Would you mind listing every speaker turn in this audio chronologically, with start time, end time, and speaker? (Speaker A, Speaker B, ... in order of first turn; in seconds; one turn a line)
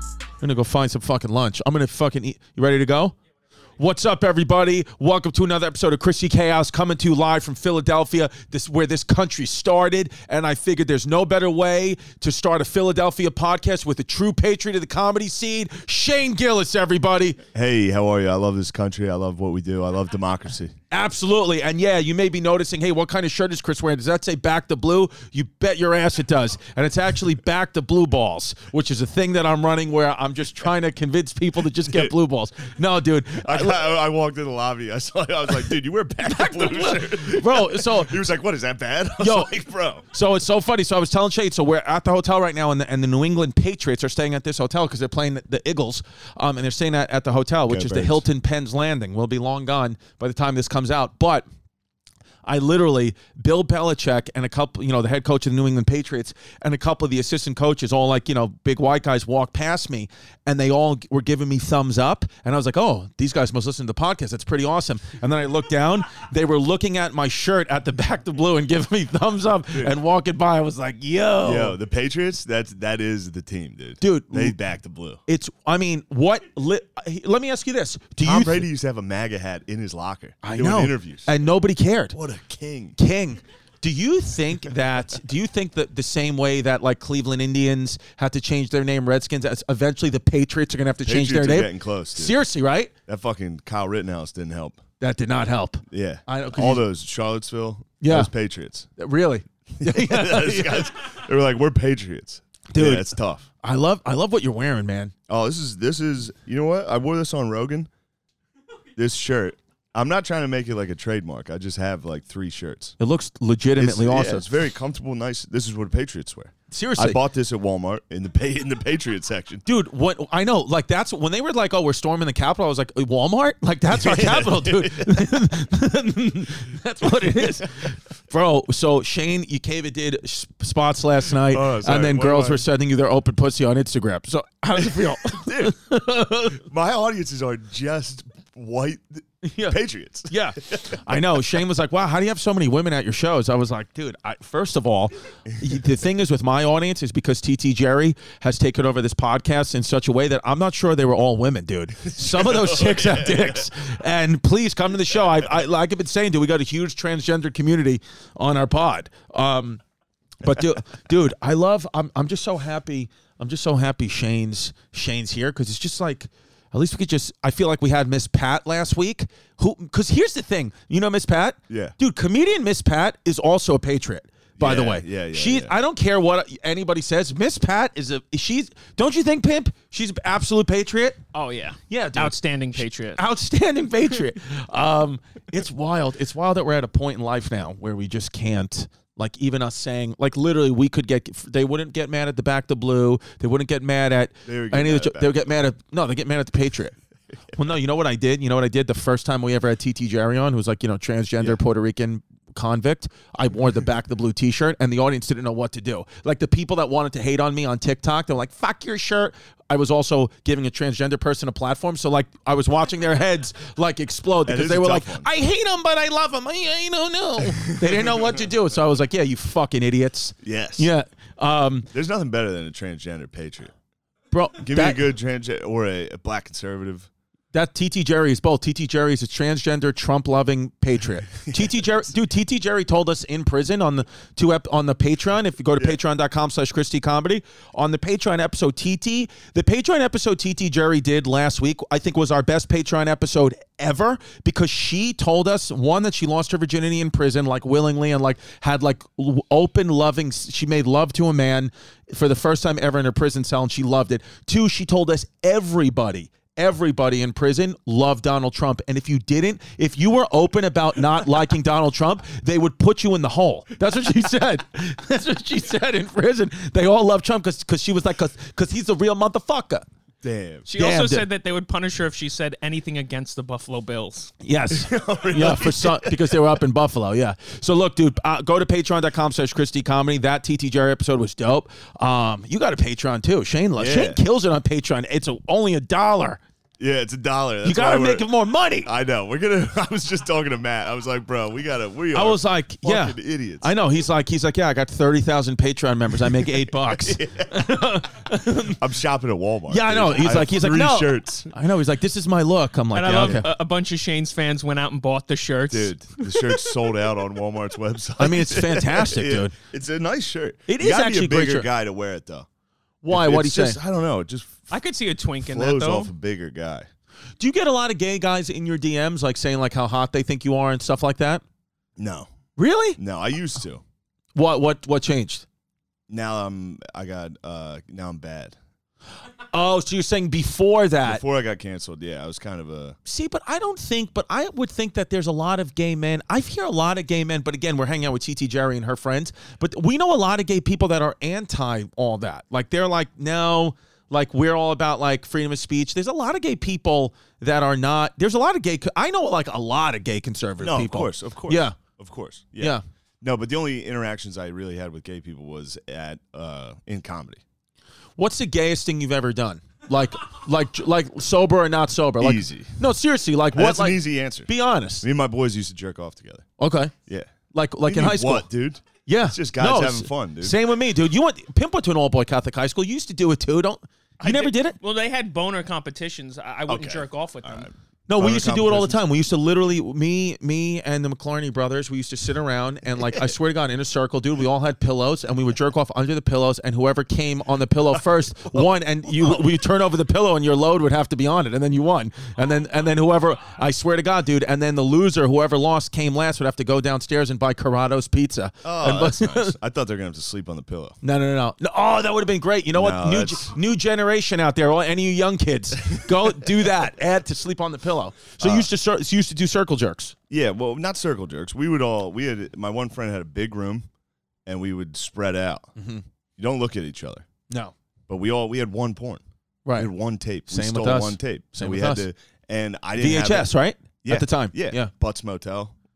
Speaker A: 0.4-3.1
Speaker A: 3.8-17.4
Speaker B: 17.5-20.7
Speaker A: 20.9-33.8
Speaker B: 31.9-32.1
Speaker B: 33.4-40.1
Speaker A: 36.2-38.3
Speaker A: 39.2-39.5
Speaker A: 40.1-51.5
Speaker B: 47.7-48.2
Speaker A: 52.5-71.8
Speaker B: 71.4-75.2
Speaker A: 74.0-74.6
Speaker A: 75.3-78.7
Speaker B: 78.2-81.3
Speaker A: 80.4-82.2
Speaker B: 82.1-83.0
Speaker A: 83.0-92.9
Speaker B: 91.0-92.4
Speaker B: 93.1-94.8
Speaker A: 95.0-96.8
Speaker B: 95.9-98.9
Speaker A: 98.0-98.3
Speaker A: 99.0-100.9
Speaker B: 99.8-103.5
Speaker A: 102.7-105.1
Speaker B: 105.3-107.9
Speaker B: 109.0-113.0
Speaker A: 113.0-114.5
Speaker B: 113.8-119.7
Speaker A: 116.7-117.2
Speaker A: 119.7-136.6
Speaker B: 123.9-125.3
Speaker B: 127.2-127.7
Speaker B: 131.4-132.7
Speaker B: 134.8-135.8
Speaker B: 136.5-141.4
Speaker A: 139.4-159.8
Speaker B: 152.0-153.7
Speaker A: 160.4-181.2
Speaker B: 171.7-171.9
Speaker B: 174.6-175.8
Speaker C: 181.3-183.2
Speaker A: 181.9-182.4
Speaker A: 183.2-197.0
Speaker B: 194.5-195.4
Speaker A: 197.5-221.9
Speaker B: 214.4-215.3
Speaker B: 217.7-218.5
Speaker B: 220.4-220.9
Speaker B: 221.9-223.7
Speaker A: 224.3-225.1
Speaker B: 224.6-227.1
Speaker A: 227.5-269.9
Speaker B: 231.4-232.1
Speaker B: 270.2-270.7
Speaker C: 270.7-274.3
Speaker A: 270.8-271.2
Speaker A: 274.4-286.4
Speaker B: 274.7-276.4
Speaker B: 283.8-284.2
Speaker B: 286.8-288.3
Speaker A: 287.6-288.9
Speaker B: 288.8-293.7
Speaker A: 292.1-298.8
Speaker B: 296.2-297.7
Speaker B: 298.7-301.5
Speaker A: 299.7-303.5
Speaker C: 302.9-306.8
Speaker B: 303.2-303.4
Speaker B: 305.7-312.5
Speaker A: 308.2-309.5
Speaker A: 310.7-311.7
Speaker A: 313.0-313.8
Speaker B: 313.1-314.8
Speaker C: 314.7-316.1
Speaker B: 315.4-316.9
Speaker A: 317.4-321.4
Speaker B: 322.0-322.3
Speaker A: 322.6-323.0
Speaker B: 323.0-323.8
Speaker A: 324.4-325.4
Speaker B: 326.1-328.6
Speaker A: 329.5-331.2
Speaker B: 331.0-333.0
Speaker A: 333.1-351.8
Speaker B: 350.6-357.4
Speaker A: 358.2-365.1
Speaker B: 362.2-362.8
Speaker B: 363.5-366.5
Speaker A: 366.6-366.9
Speaker B: 367.1-367.3
Speaker A: 367.5-368.5
Speaker B: 367.8-370.6
Speaker A: 369.1-374.8
Speaker C: 374.2-377.7
Speaker B: 376.7-379.0
Speaker A: 378.1-399.5
Speaker B: 398.6-401.0
Speaker A: 401.0-410.1
Speaker B: 402.7-403.6
Speaker B: 405.9-406.6
Speaker B: 408.4-408.7
Speaker B: 410.3-413.9
Speaker B: 414.5-415.7
Speaker A: 415.8-416.0
Speaker B: 416.4-417.3
Speaker B: 418.1-419.2
Speaker A: 419.6-419.9
Speaker B: 419.8-425.8
Speaker A: 420.5-422.1
Speaker A: 423.0-424.9